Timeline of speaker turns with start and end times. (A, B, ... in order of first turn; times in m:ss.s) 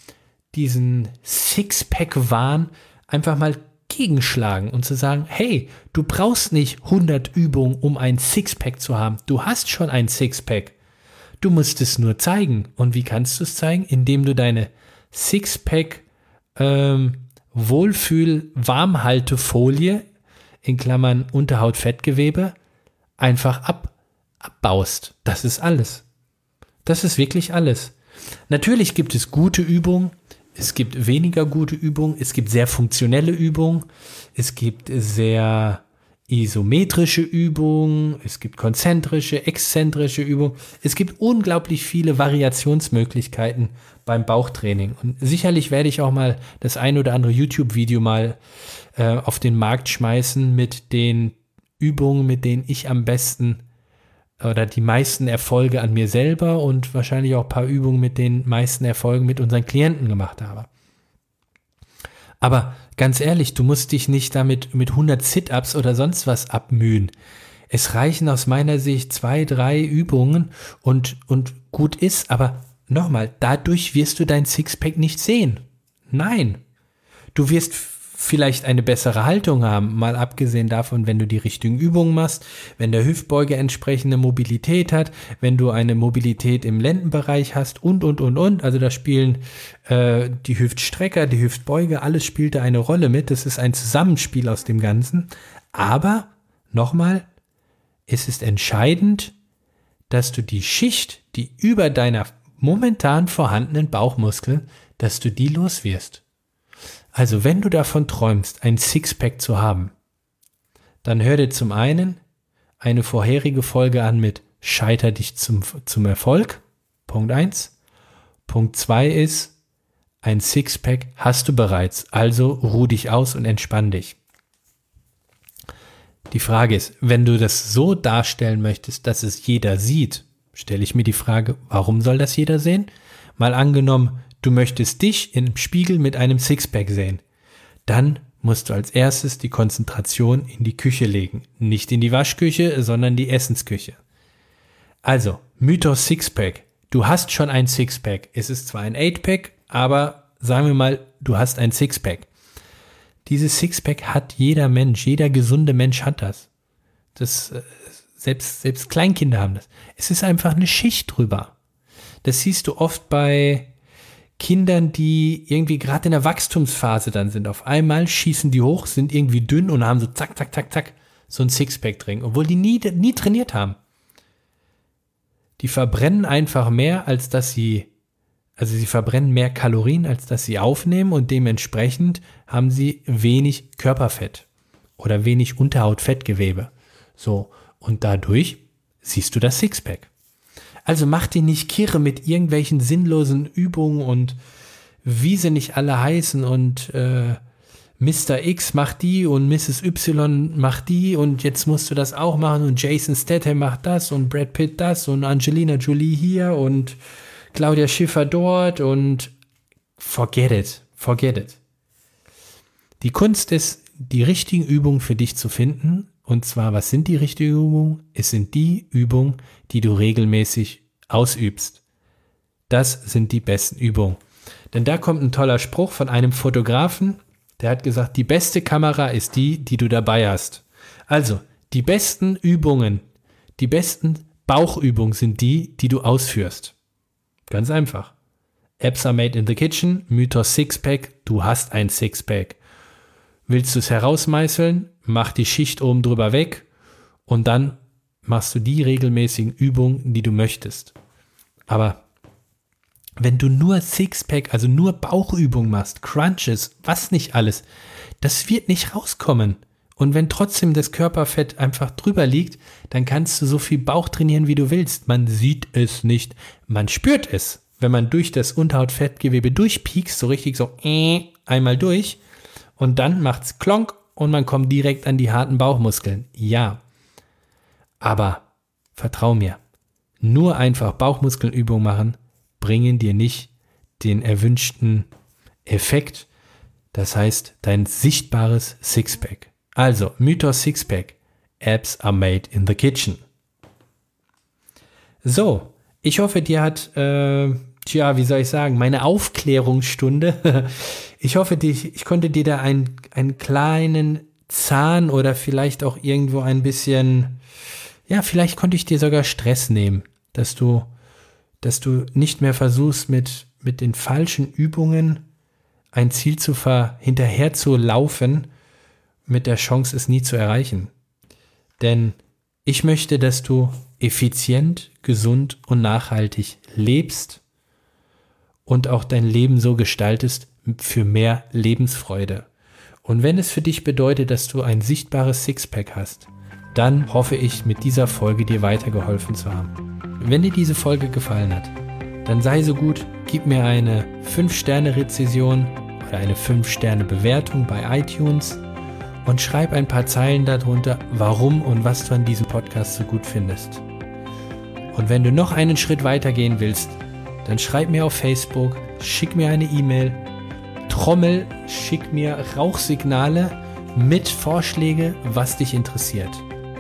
0:00.5-0:10.8 A
0:11.4-0:16.0 A
0:16.6-0:20.0 A
0:20.6-0:22.6 A
0:23.2-0:26.0 A
0:26.8-0:27.9 A
0:28.5-0:48.4 A
0:48.9-0:53.6 A
0:54.4-1:00.7 A
1:02.4-1:07.1 A
1:07.7-1:16.6 A
1:17.3-1:37.3 A
1:38.1-1:39.3 A
1:40.1-1:46.2 A
1:47.1-1:49.9 A
1:51.0-1:52.2 A
1:52.8-1:57.7 A
1:58.5-1:59.5 A
2:00.2-2:04.2 A
2:06.3-2:17.2 A
2:17.9-2:24.0 A
2:25.0-2:32.3 A
2:33.3-2:36.5 A
2:37.2-2:41.6 A
2:42.2-2:43.7 A
2:44.4-2:53.8 A
2:55.6-2:57.9 A
2:58.6-3:04.5 A
3:05.0-3:10.1 A
3:10.8-3:14.4 A
3:15.0-3:17.4 A
3:18.0-3:27.0 A
3:27.5-3:29.3 A
3:30.0-3:31.6 A
3:33.0-3:41.8 A
3:42.7-3:44.2 A
3:44.7-3:53.0 A
3:53.6-3:56.7 A
3:57.5-3:58.1 A
3:58.8-4:02.6 A
4:03.5-4:06.7 A
4:07.3-4:10.9 A
4:11.7-4:12.0 A
4:13.2-4:17.6 A
4:18.2-4:32.2 A
4:32.8-4:36.8 A
4:38.0-4:39.6 A
4:40.2-4:45.1 A
4:45.6-4:46.3 A
4:46.9-4:53.2 A
4:55.2-5:07.4 A
5:08.1-5:10.9 A
5:11.6-5:15.2 A
5:15.9-5:18.5 A
5:19.3-5:20.9 A
5:21.8-5:27.4 A
5:28.7-5:32.5 A
5:33.0-5:41.7 A
5:42.2-5:48.6 A
5:49.2-5:53.8 A
5:54.9-6:00.2 A
6:00.9-6:06.4 A